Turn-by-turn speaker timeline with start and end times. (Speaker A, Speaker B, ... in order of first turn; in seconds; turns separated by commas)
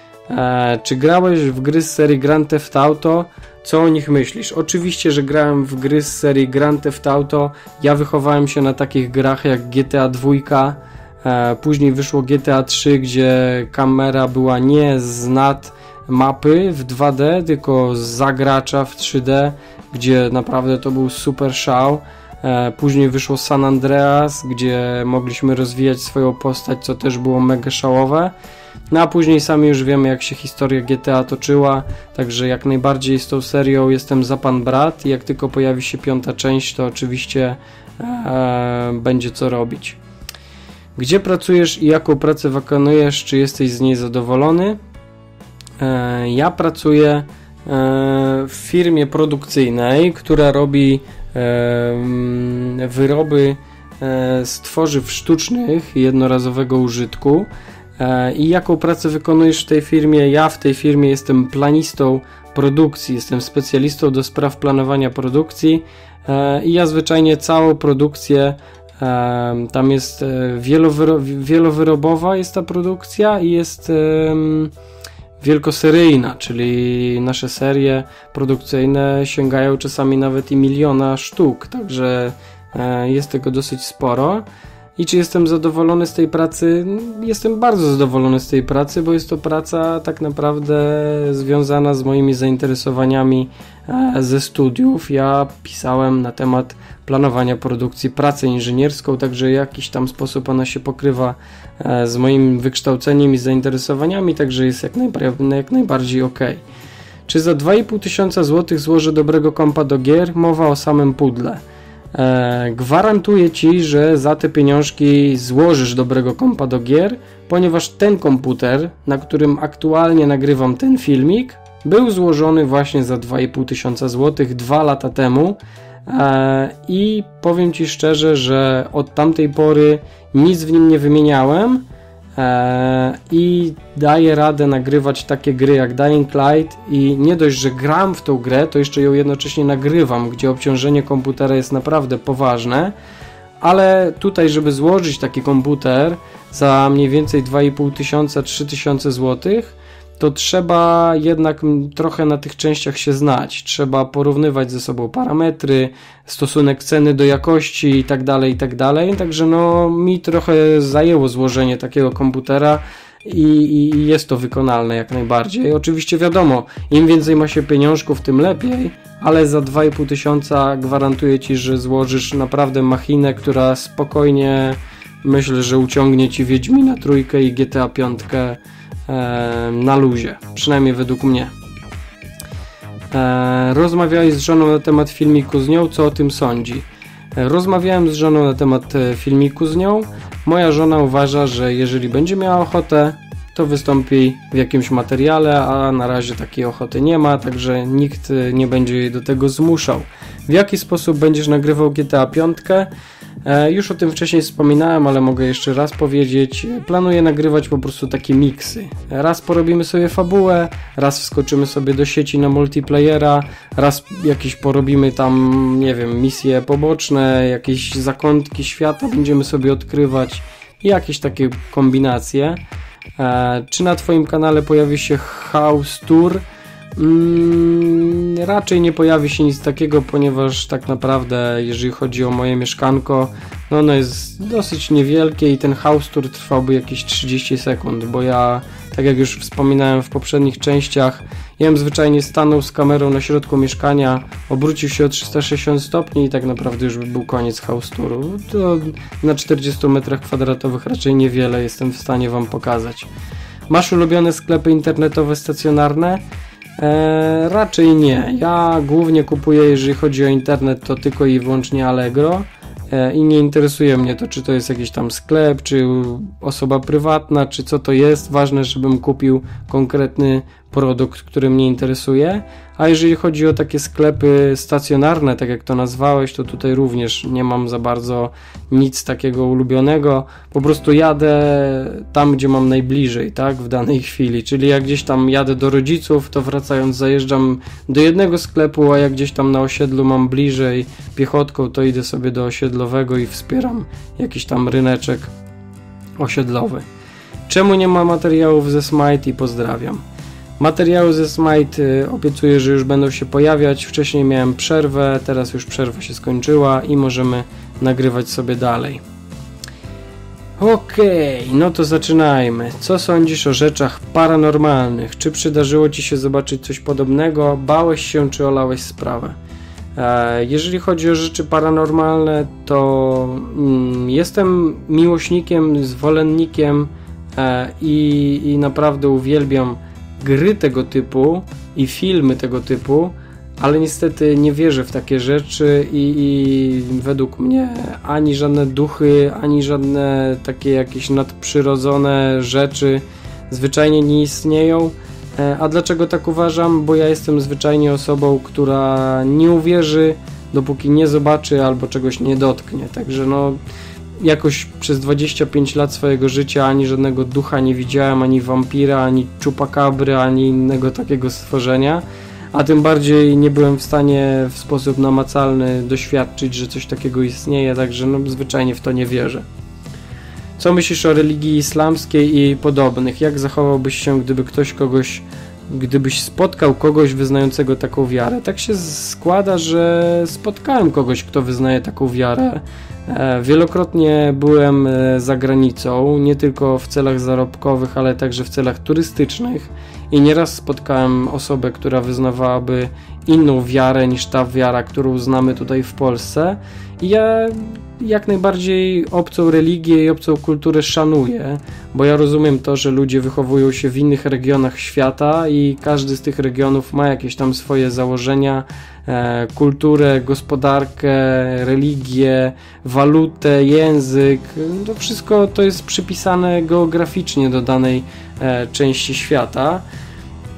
Speaker A: 0.3-28.3, Speaker A: 28.9-40.0, Speaker A: 41.0-44.8, Speaker A: 45.8-74.7, Speaker A: 75.4-84.5, Speaker A: 85.0-106.6, Speaker A: 107.3-111.6, Speaker A: 112.1-131.8, Speaker A: 132.3-142.9, Speaker A: 143.6-181.5, Speaker A: 183.1-202.9, Speaker A: 203.4-222.6, Speaker A: 223.2-226.4, Speaker A: 226.9-253.1, Speaker A: 253.7-256.2, Speaker A: 256.8-295.3, Speaker A: 296.2-296.9, Speaker A: 297.5-300.0, Speaker A: 300.6-309.0, Speaker A: 310.6-319.4, Speaker A: 319.9-353.6, Speaker A: 354.2-369.4, Speaker A: 370.6-419.8